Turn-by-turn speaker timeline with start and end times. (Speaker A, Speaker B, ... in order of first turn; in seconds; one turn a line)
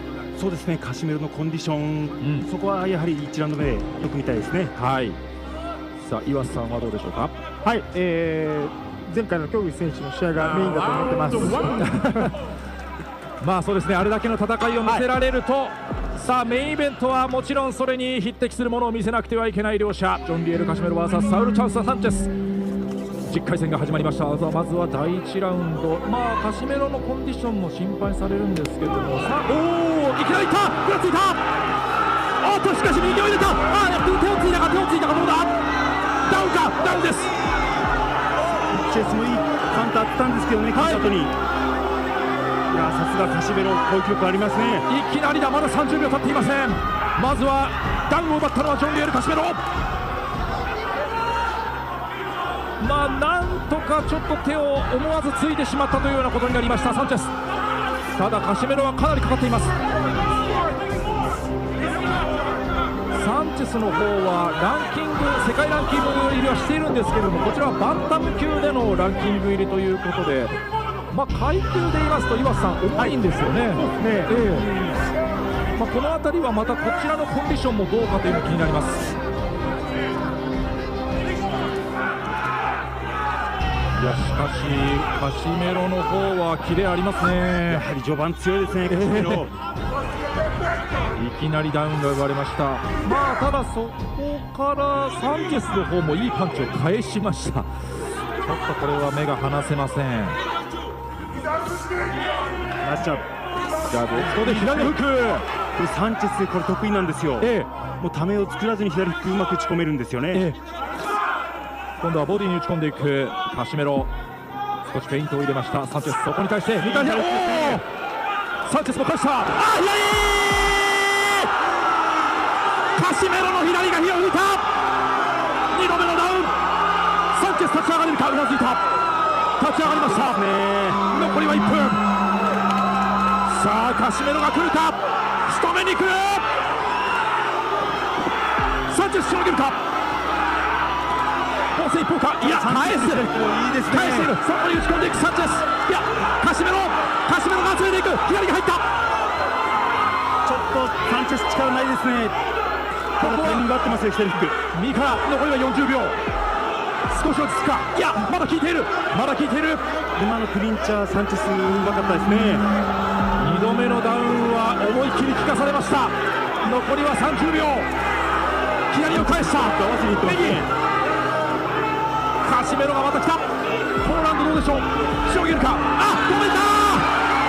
Speaker A: 0.4-4.7
Speaker B: 2.2-2.5
Speaker B: 4.8-5.2
Speaker B: 6.0-7.3
Speaker C: 7.6-12.3
Speaker B: 10.5-12.0
Speaker B: 13.4-22.3
Speaker B: 23.3-31.4
Speaker B: 32.4-35.5
Speaker B: 36.2-37.3
Speaker A: 38.8-41.3
Speaker B: 40.7-41.0
Speaker A: 42.7-44.8
Speaker B: 44.9-49.6
Speaker B: 52.8-57.3
Speaker B: 58.1-59.7
Speaker B: 63.1-70.6
Speaker B: 71.1-74.7
Speaker A: 73.8-75.0
Speaker B: 75.8-79.1
Speaker B: 84.0-87.8
Speaker A: 87.7-89.5
Speaker B: 88.9-89.4
Speaker B: 91.2-97.7
Speaker B: 98.4-100.4
Speaker A: 102.8-103.2
Speaker B: 103.9-105.4
Speaker A: 104.1-105.0
Speaker A: 105.8-107.5
Speaker B: 107.4-107.7
Speaker A: 108.0-110.4
Speaker B: 112.0-114.1
Speaker B: 114.9-117.8
Speaker A: 116.8-117.8
Speaker B: 118.7-121.5
Speaker B: 123.0-124.6
Speaker B: 125.7-126.5
Speaker B: 127.3-128.8
Speaker B: 129.6-130.4
Speaker A: 129.9-131.0
Speaker B: 131.1-132.0
Speaker B: 133.5-136.4
Speaker B: 138.9-139.8
Speaker B: 141.8-143.2
Speaker A: 142.4-144.3
Speaker B: 143.9-148.8
Speaker A: 150.4-152.3
Speaker A: 153.2-154.6
Speaker B: 153.2-153.7
Speaker B: 154.7-156.2
Speaker B: 157.1-159.8
Speaker A: 160.2-162.6
Speaker B: 163.4-167.9
Speaker B: 168.9-170.6
Speaker A: 169.1-170.7
Speaker B: 172.4-173.4
Speaker B: 174.0-177.1